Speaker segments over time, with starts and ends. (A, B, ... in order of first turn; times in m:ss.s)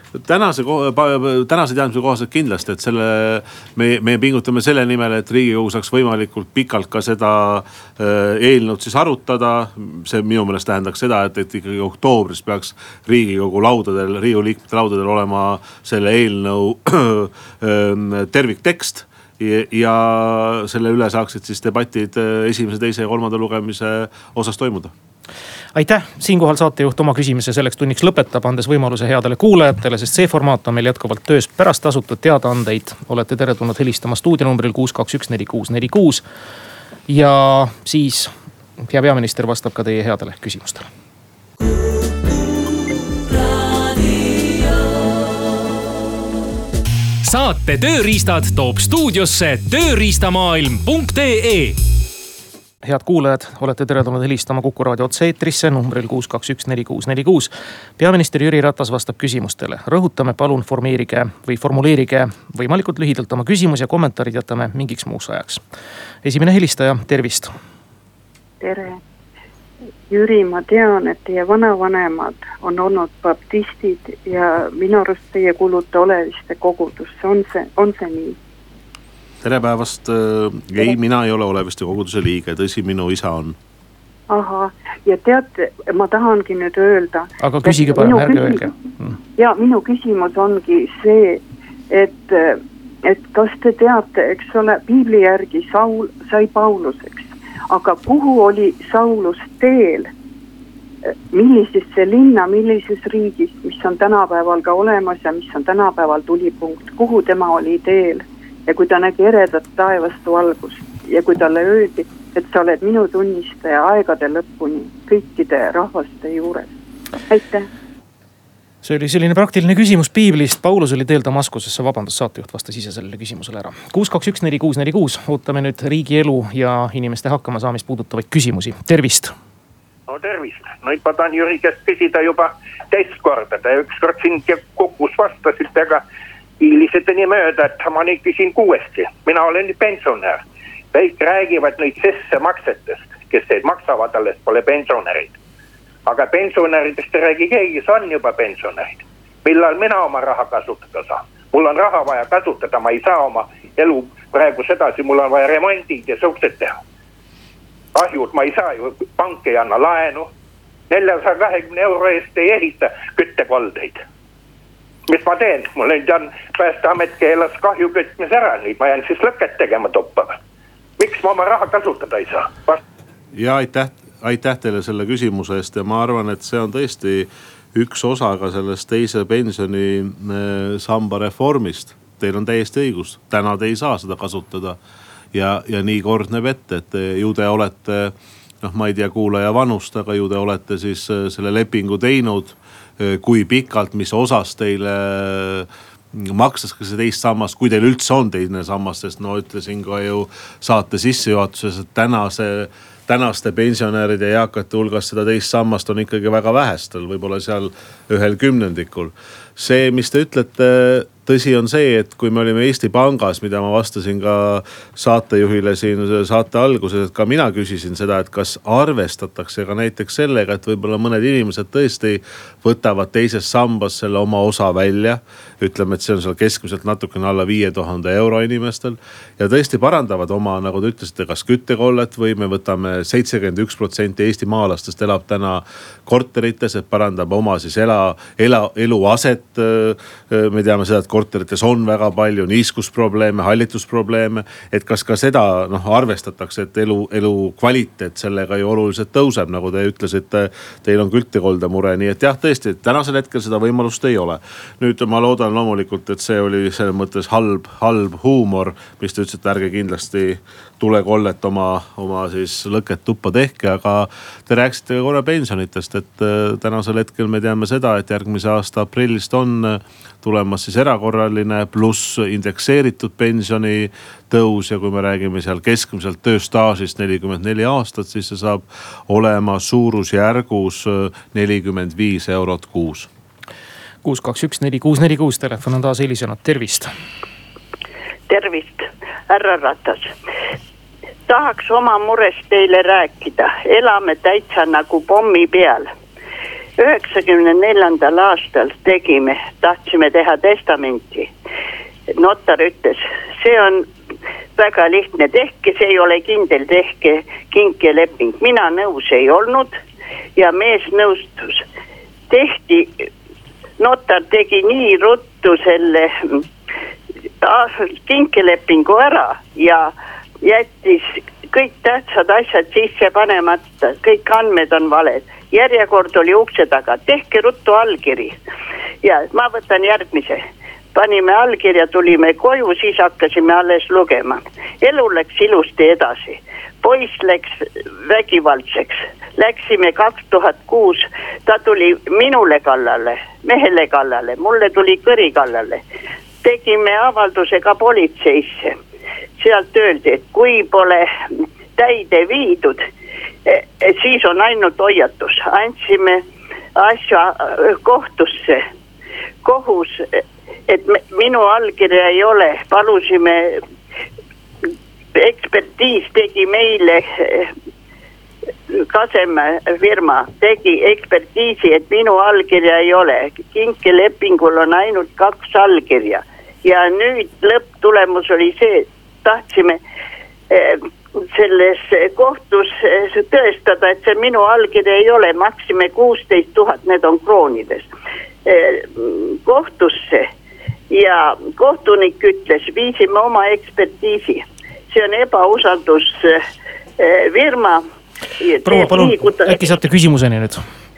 0:00.1-0:24.9 A
0:25.7-0:36.2 B
0:37.1-0:40.9 B
0:47.2-0:51.8 C
0:52.8-1:05.6 B
1:06.2-1:07.5 B
1:08.6-1:09.0 D
1:10.1-1:18.4 D
1:19.4-1:23.6 A
1:24.3-1:28.7 D
1:27.4-1:29.2 B
1:29.4-1:40.1 D
1:41.1-1:56.7 D
1:57.3-1:57.7 D
1:58.8-2:09.3 B
2:10.1-2:16.0 E
2:16.6-2:25.4 E
2:26.1-2:36.8 E
2:37.9-2:40.3 E
2:40.9-2:44.0 E
2:45.1-2:50.4 E
2:51.0-2:52.8 E
2:53.3-3:04.8 A
3:05.3-4:43.1 A
4:44.0-4:46.9 B
4:48.3-4:50.1 F
4:51.3-4:55.9 F
4:56.8-5:01.3 F
5:02.2-5:03.9 F
5:04.6-5:09.8 F
5:10.4-5:11.6 F
5:12.3-5:13.1 F
5:13.8-5:16.4 F
5:17.4-5:28.4 F
5:29.0-5:30.4 F
5:31.0-5:45.8 F
5:46.4-5:48.8 F
5:49.4-5:51.1 F
5:51.8-5:52.8 F
5:53.5-5:56.2 F
5:56.8-5:58.6 F
5:59.4-6:03.6 F
6:05.2-6:07.5 F
6:08.7-6:19.8 F
6:20.5-6:27.9 F
6:28.5-6:30.3 F
6:30.9-6:36.4 F
6:37.0-6:37.8 F
6:38.4-6:39.6 F
6:38.6-6:40.6 B